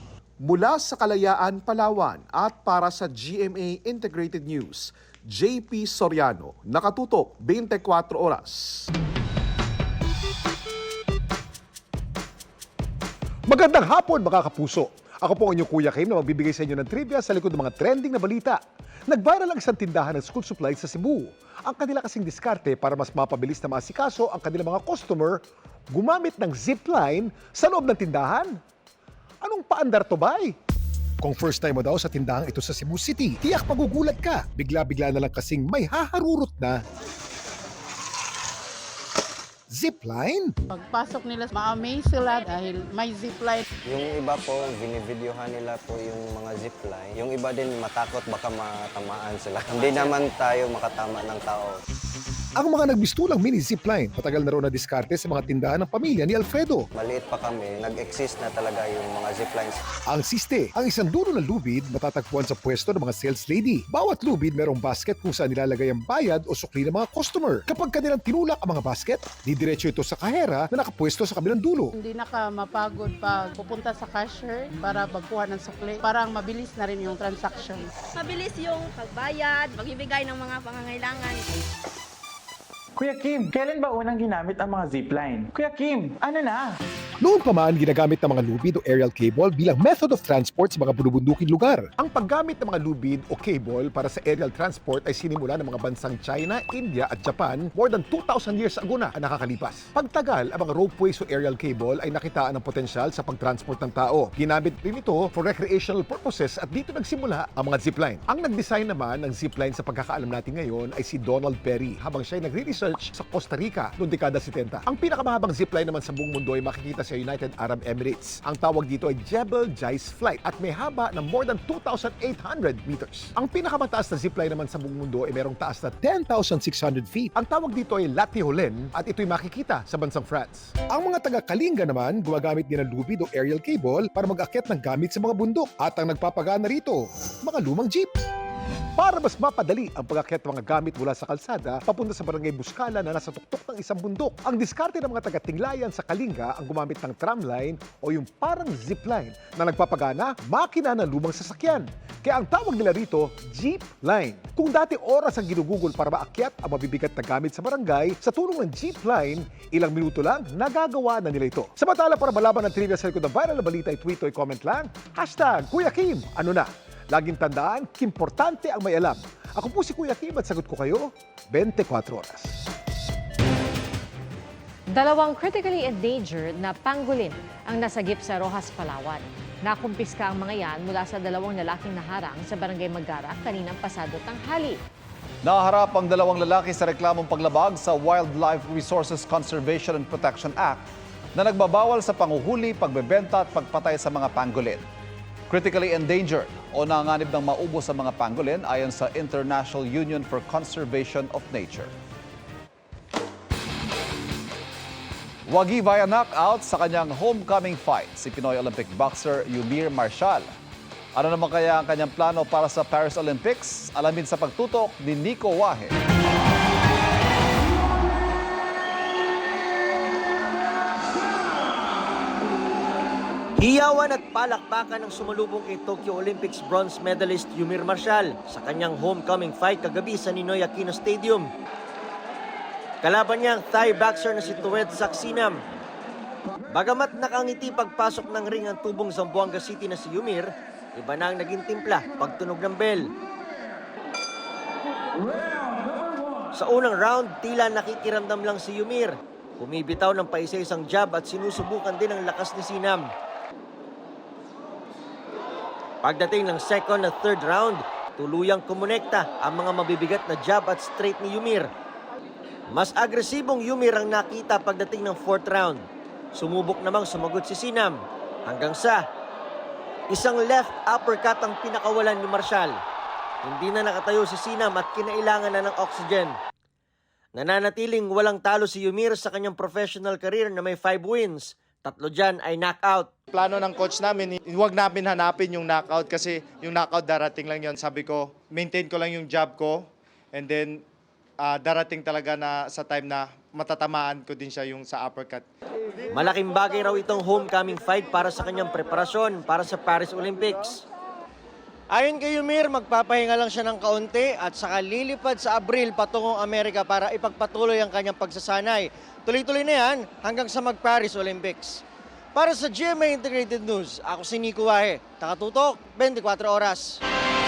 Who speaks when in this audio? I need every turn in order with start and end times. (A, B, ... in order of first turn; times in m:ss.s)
0:00.4-0:08.9 A
0:13.5-0:28.6 B
0:29.4-0:30.6 B
0:31.2-0:36.8 B
0:39.7-0:40.5 B
0:40.7-0:43.6 C
0:43.9-0:51.7 D
0:52.6-0:56.9 B
0:56.9-0:59.8 D
1:00.1-1:11.9 B
1:12.0-1:17.8 C
1:18.2-1:21.4 E
1:23.0-1:26.6 F
1:27.2-2:18.1 B
2:19.0-2:52.6 B
2:54.9-3:04.8 G
3:05.4-3:10.8 H
3:11.4-3:14.8 H
3:15.5-3:21.9 H
3:25.5-3:30.5 H
3:31.1-3:35.9 H
3:43.6-3:51.5 I
3:53.0-3:55.6 I
3:56.7-4:03.1 I
4:06.5-4:13.1 I
4:16.0-4:21.7 I
4:22.7-4:25.8 I
4:26.3-4:29.0 I
4:30.1-4:32.7 I
4:33.4-4:36.3 I
4:37.3-4:43.1 I
4:43.3-4:50.8 J
4:51.4-4:55.4 J
4:56.1-5:00.8 I
5:01.9-5:11.8 I
5:12.3-5:17.0 I